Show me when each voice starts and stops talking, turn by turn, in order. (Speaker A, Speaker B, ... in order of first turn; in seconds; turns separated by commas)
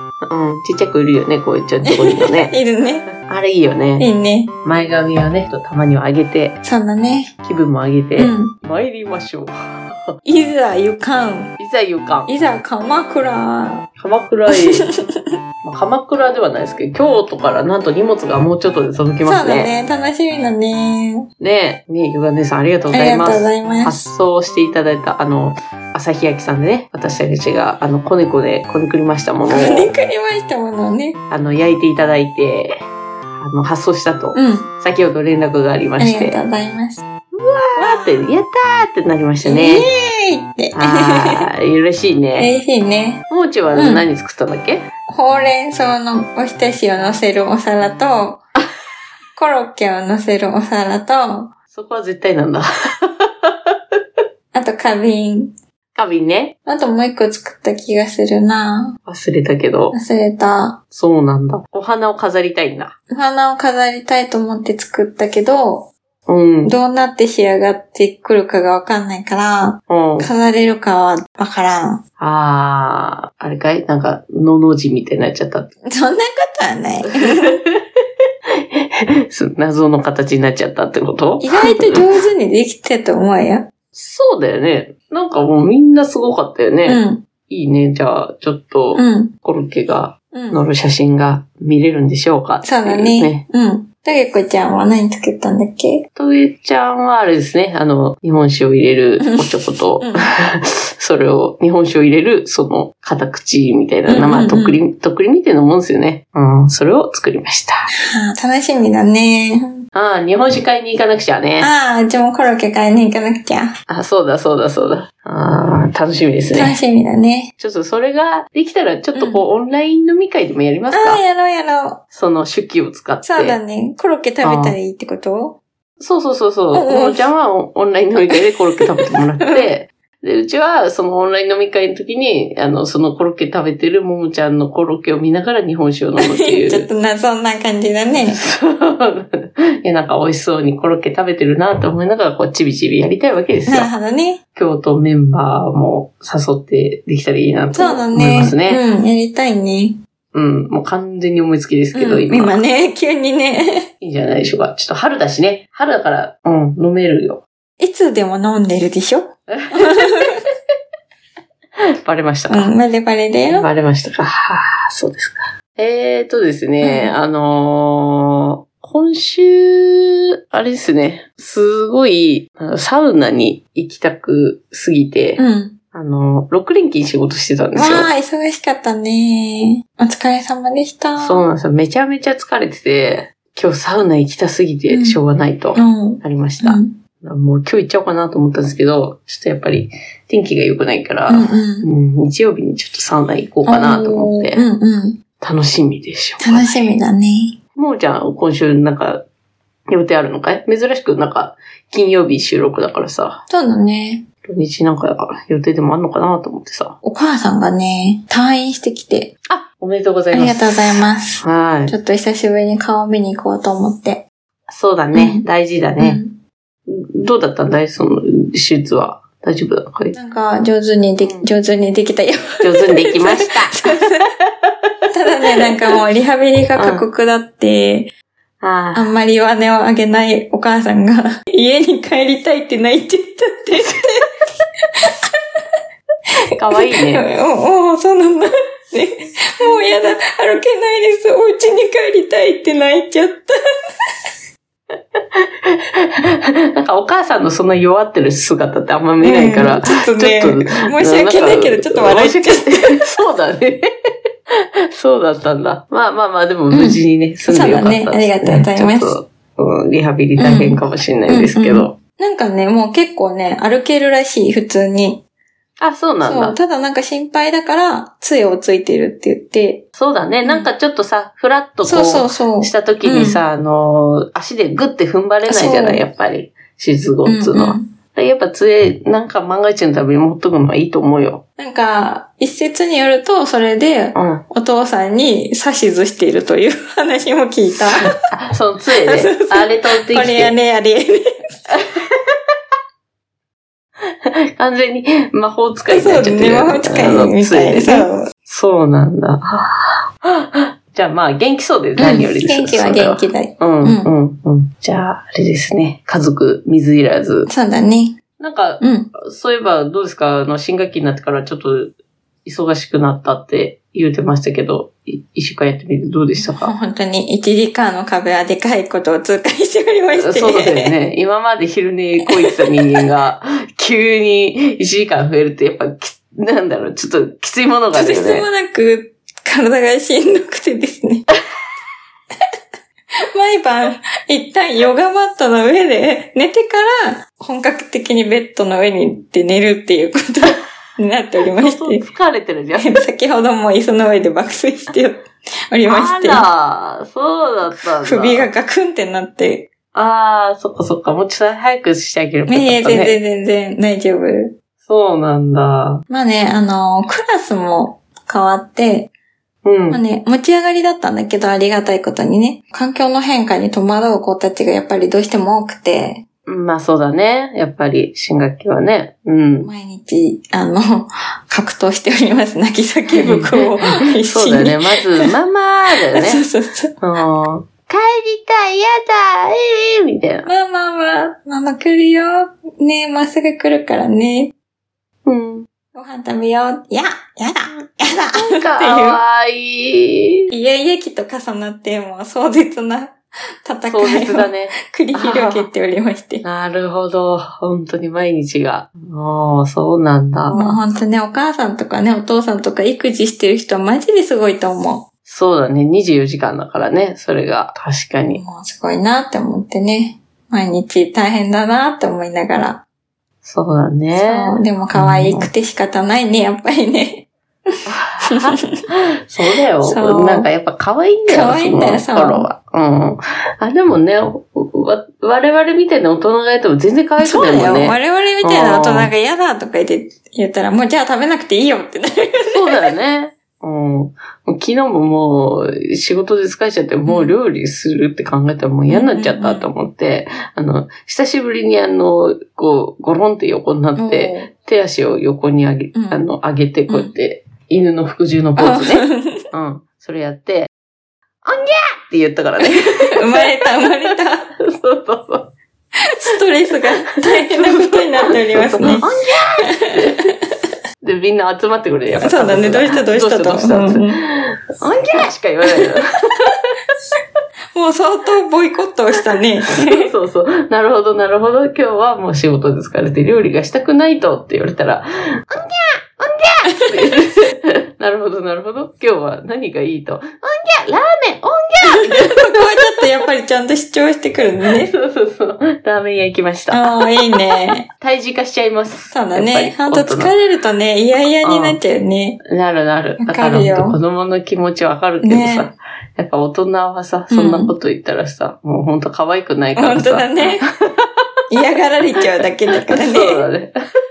Speaker A: 0.3-2.5, Speaker B: 1.9-3.1, Speaker A: 3.2-4.1, Speaker B: 4.0-4.5, Speaker A: 4.6-6.6, Speaker B: 6.6-7.3, Speaker A: 7.4-10.1, Speaker B: 8.2-8.6, Speaker B: 10.2-11.6, Speaker A: 11.6-12.3, Speaker B: 12.3-13.9, Speaker A: 14.0-14.9, Speaker B: 14.5-15.0, Speaker A: 15.6-19.7, Speaker B: 19.2-21.3, Speaker A: 21.4-29.9, Speaker B: 22.9-24.0, Speaker B: 29.5-31.2, Speaker A: 31.3-32.8, Speaker A: 33.4-36.4, Speaker B: 34.4-34.7, Speaker B: 36.0-37.0, Speaker A: 37.4-39.9, Speaker B: 37.8-38.2, Speaker B: 39.4-41.5, Speaker A: 40.8-42.5, Speaker B: 42.4-44.1, Speaker A: 43.3-44.9, Speaker B: 45.1-48.4, Speaker B: 49.4-51.5, Speaker A: 51.7-53.5, Speaker B: 54.5-55.5, Speaker A: 56.0-56.6, Speaker B: 56.7-59.0, Speaker A: 59.1-60.0, Speaker B: 59.9-60.8, Speaker A: 60.9-63.0, Speaker B: 63.1-65.9, Speaker A: 66.3-66.8, Speaker B: 66.7-72.0, Speaker A: 69.9-70.3, Speaker A: 72.2-75.7, Speaker B: 75.9-77.6, Speaker A: 77.0-77.8, Speaker A: 78.7-82.0, Speaker B: 81.4-83.7, Speaker A: 83.9-93.4, Speaker B: 86.9-87.3, Speaker B: 89.0-89.3, Speaker B: 90.3-90.6, Speaker B: 92.6-96.1, Speaker A: 96.2-107.9, Speaker B: 100.0-100.3, Speaker B: 104.1-104.8, Speaker B: 108.0-109.8, Speaker A: 109.9-111.7, Speaker B: 111.6-113.7, Speaker A: 113.9-116.8, Speaker B: 116.5-117.5, Speaker A: 117.6-121.2, Speaker B: 119.2-119.4, Speaker B: 120.9-122.0, Speaker A: 122.1-123.6, Speaker B: 123.2-125.6, Speaker A: 124.4-124.8, Speaker A: 126.0-136.9, Speaker B: 126.7-127.2, Speaker B: 136.2-138.4, Speaker A: 138.2-143.9, Speaker B: 143.7-144.4, Speaker A: 144.6-148.8, Speaker B: 147.7-150.0, Speaker A: 150.3-152.6, Speaker B: 151.9-153.8, Speaker A: 154.0-157.4, Speaker B: 157.8-160.4, Speaker A: 159.5-160.4, Speaker A: 162.0-162.7, Speaker B: 162.5-163.7, Speaker A: 163.5-175.4, Speaker B: 166.8-167.2, Speaker B: 175.4-175.8, Speaker A: 175.9-178.1, Speaker B: 177.8-181.4, Speaker A: 181.2-194.6, Speaker B: 184.9-185.2, Speaker B: 185.8-187.0, Speaker B: 191.3-191.9, Speaker B: 193.7-195.2, Speaker A: 195.4-196.9, Speaker B: 196.4-197.6, Speaker A: 197.8-199.2, Speaker A: 199.9-203.4, Speaker B: 203.5-204.3, Speaker A: 204.4-207.0, Speaker B: 207.0-209.3, Speaker A: 209.5-210.7, Speaker B: 210.3-214.2, Speaker A: 211.4-212.0, Speaker A: 214.7-216.2, Speaker B: 215.1-215.4, Speaker B: 216.0-216.4, Speaker A: 216.9-220.2, Speaker B: 220.1-224.3, Speaker A: 221.2-221.5, Speaker A: 222.6-223.8, Speaker B: 225.1-228.1, Speaker A: 225.4-225.7, Speaker A: 226.8-227.1, Speaker A: 228.6-229.1, Speaker B: 228.9-234.3, Speaker B: 235.0-235.3, Speaker A: 236.5-237.3, Speaker B: 236.9-243.6, Speaker A: 245.2-253.9, Speaker B: 249.2-253.0, Speaker A: 254.9-262.0, Speaker B: 256.7-259.2, Speaker B: 260.4-265.2, Speaker A: 265.8-266.6, Speaker B: 266.2-269.9, Speaker A: 270.0-281.4, Speaker B: 271.9-273.4, Speaker B: 275.5-276.0, Speaker B: 277.3-277.9, Speaker B: 281.6-288.1, Speaker A: 284.1-284.4, Speaker A: 288.2-290.5, Speaker B: 289.1-291.6, Speaker A: 291.7-292.3, Speaker A: 294.1-307.5, Speaker B: 295.9-298.3, Speaker B: 302.0-304.1, Speaker B: 307.5-308.2, Speaker A: 308.4-311.9, Speaker B: 308.8-309.1, Speaker A: 312.4-316.7, Speaker B: 316.4-320.9, Speaker A: 320.1-328.5, Speaker B: 327.9-331.3, Speaker B: 333.3-342.1, Speaker A: 341.6-343.0, Speaker B: 342.8-346.4, Speaker A: 345.9-348.5, Speaker B: 348.0-349.7, Speaker A: 349.9-353.2, Speaker B: 352.5-354.6, Speaker A: 354.9-356.0, Speaker B: 356.1-359.1, Speaker A: 359.6-360.0, Speaker B: 359.9-366.2, Speaker A: 366.5-369.7, Speaker B: 369.6-375.3, Speaker A: 373.1-376.4, Speaker B: 376.1-376.9, Speaker A: 377.0-380.5, Speaker B: 380.5-384.5, Speaker A: 385.2-385.7, Speaker B: 385.9-389.2, Speaker A: 388.3-390.5, Speaker B: 390.5-396.4, Speaker A: 393.9-395.7, Speaker A: 396.4-400.8, Speaker B: 400.5-405.1, Speaker A: 405.3-408.4, Speaker B: 408.3-412.8, Speaker A: 413.4-415.5, Speaker B: 414.1-418.7, Speaker A: 417.9-429.1, Speaker B: 419.8-420.5, Speaker B: 421.3-422.5, Speaker B: 427.2-432.8, Speaker A: 432.5-450.7, Speaker B: 437.1-437.4, Speaker B: 438.9-439.7, Speaker B: 444.0-444.5, Speaker B: 445.9-446.3, Speaker B: 448.6-449.4, Speaker A: 451.4-455.5, Speaker B: 452.6-454.5, Speaker B: 456.0-459.1, Speaker A: 457.3-460.3, Speaker B: 459.6-460.4, Speaker A: 461.0-466.5, Speaker B: 462.2-464.2, Speaker B: 467.7-470.1, Speaker A: 469.7-482.9, Speaker B: 476.8-477.1, Speaker B: 481.9-484.9, Speaker A: 484.8-487.4, Speaker B: 486.7-487.9, Speaker A: 487.9-490.3, Speaker B: 489.1-492.4, Speaker A: 491.4-491.8, Speaker A: 492.4-500.4, Speaker B: 493.2-494.0, Speaker B: 495.2-495.7, Speaker B: 497.3-497.7, Speaker B: 499.8-500.7, Speaker B: 501.5-503.4, Speaker A: 502.8-503.7